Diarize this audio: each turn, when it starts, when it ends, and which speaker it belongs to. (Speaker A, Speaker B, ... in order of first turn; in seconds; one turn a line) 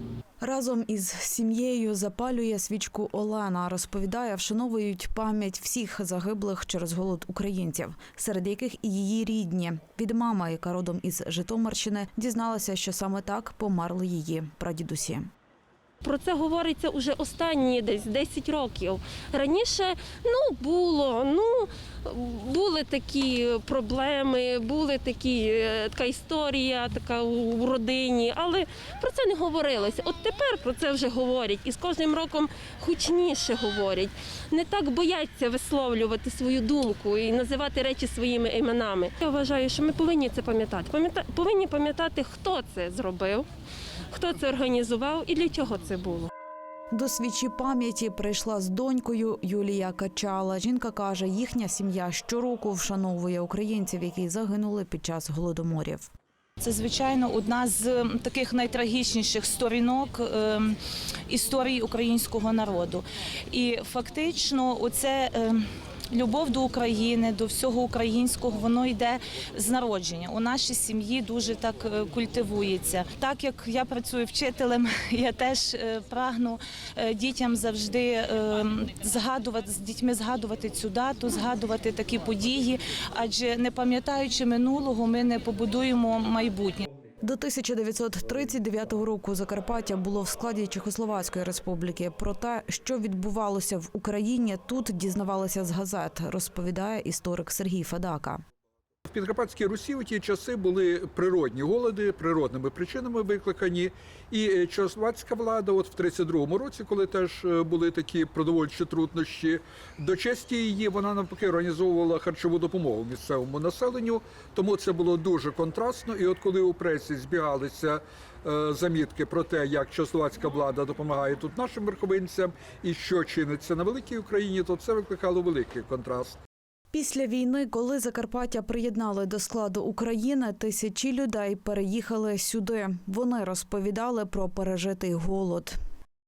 Speaker A: 0.4-15.3
Speaker B: 16.0-43.4
Speaker B: 44.1-46.3
Speaker A: 46.9-56.1
Speaker C: 56.6-60.8
Speaker C: 61.3-86.8
Speaker A: 87.2-98.4
Speaker D: 99.1-126.4
Speaker A: 126.9-135.8